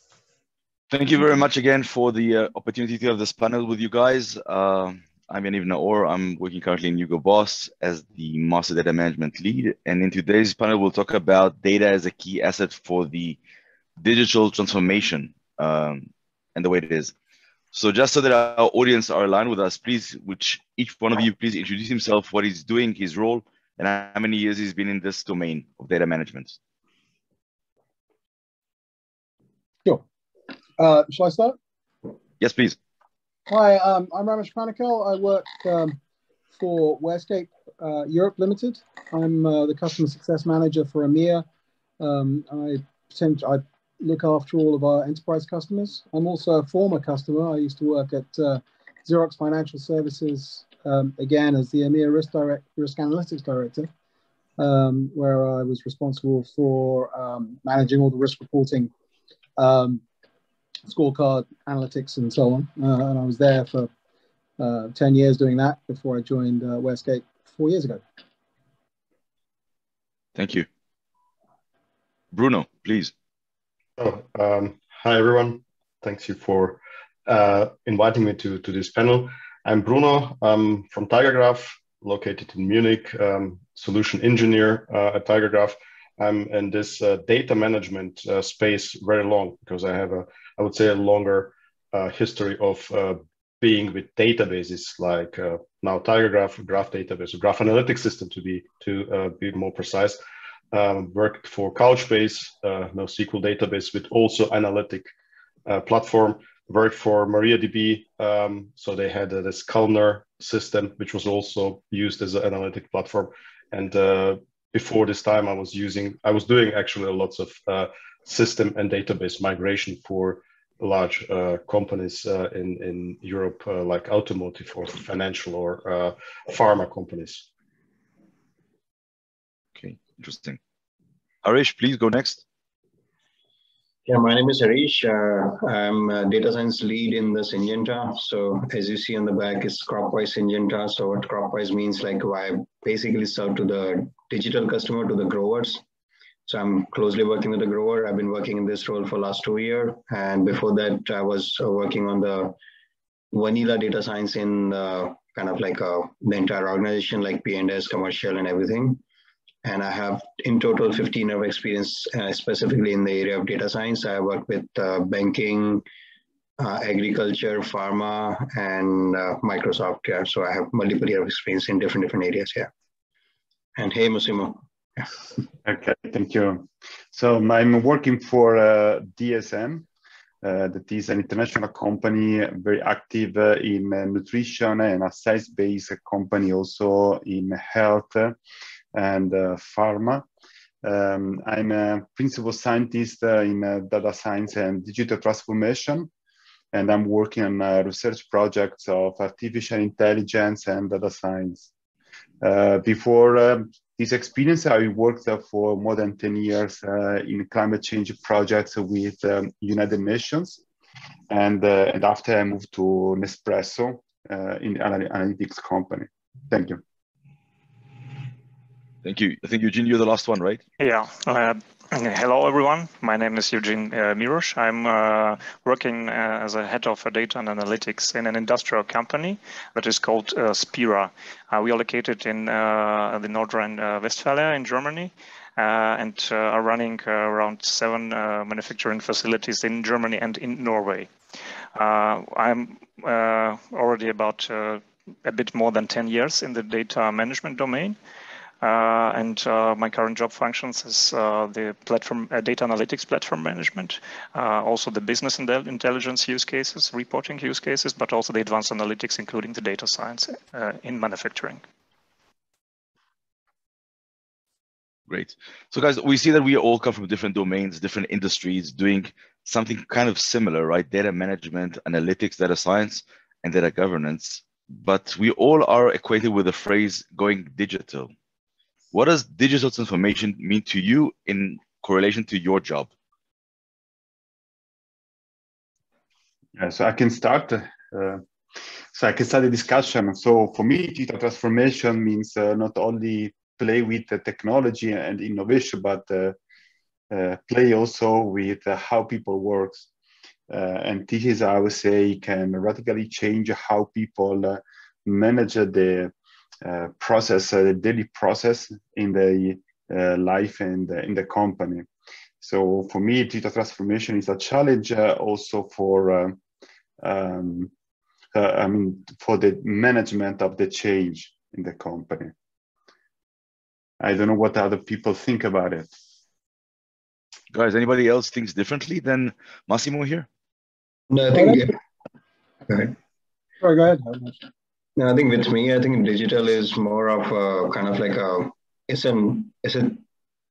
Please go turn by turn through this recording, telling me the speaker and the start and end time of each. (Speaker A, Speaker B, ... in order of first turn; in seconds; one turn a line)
Speaker A: 0.9-13.4
Speaker A: 14.0-17.1
Speaker A: 17.7-26.6
Speaker B: 30.8-31.6
Speaker A: 32.4-32.8
Speaker B: 33.5-36.0
Speaker B: 36.5-41.4
Speaker B: 42.0-53.9
Speaker B: 54.6-58.9
Speaker B: 59.6-60.0
Speaker B: 60.9-63.9
Speaker B: 64.6-68.0
Speaker A: 70.3-70.7
Speaker A: 72.3-73.1
Speaker C: 74.0-100.2
Speaker C: 100.7-105.1
Speaker C: 105.7-127.5
Speaker A: 129.8-130.6
Speaker A: 131.4-132.4
Speaker D: 134.1-145.8
Speaker D: 146.5-152.6
Speaker D: 153.3-159.0
Speaker D: 159.6-165.8
Speaker D: 166.6-172.7
Speaker D: 173.8-175.1
Speaker E: 175.6-179.9
Speaker E: 180.4-188.4
Speaker E: 188.9-190.2
Speaker E: 190.8-196.1
Speaker E: 196.7-201.7
Speaker E: 202.4-210.6
Speaker E: 211.3-216.8
Speaker A: 219.0-220.6
Speaker F: 220.8-241.1
Speaker F: 241.7-248.0
Speaker F: 248.6-261.6
Speaker A: 265.1-278.1
Speaker A: 278.9-282.9
Speaker E: 286.5-288.2
Speaker E: 288.9-296.4
Speaker E: 297.1-299.9
Speaker E: 300.5-311.9
Speaker E: 312.4-316.4
Speaker E: 317.0-317.7
Speaker E: 318.3-322.3
Speaker E: 324.0-325.9
Speaker A: 327.5-330.3
Speaker D: 331.1-331.7
Speaker B: 331.3-331.7
Speaker D: 332.7-332.9
Speaker B: 333.6-334.4
Speaker D: 335.0-340.0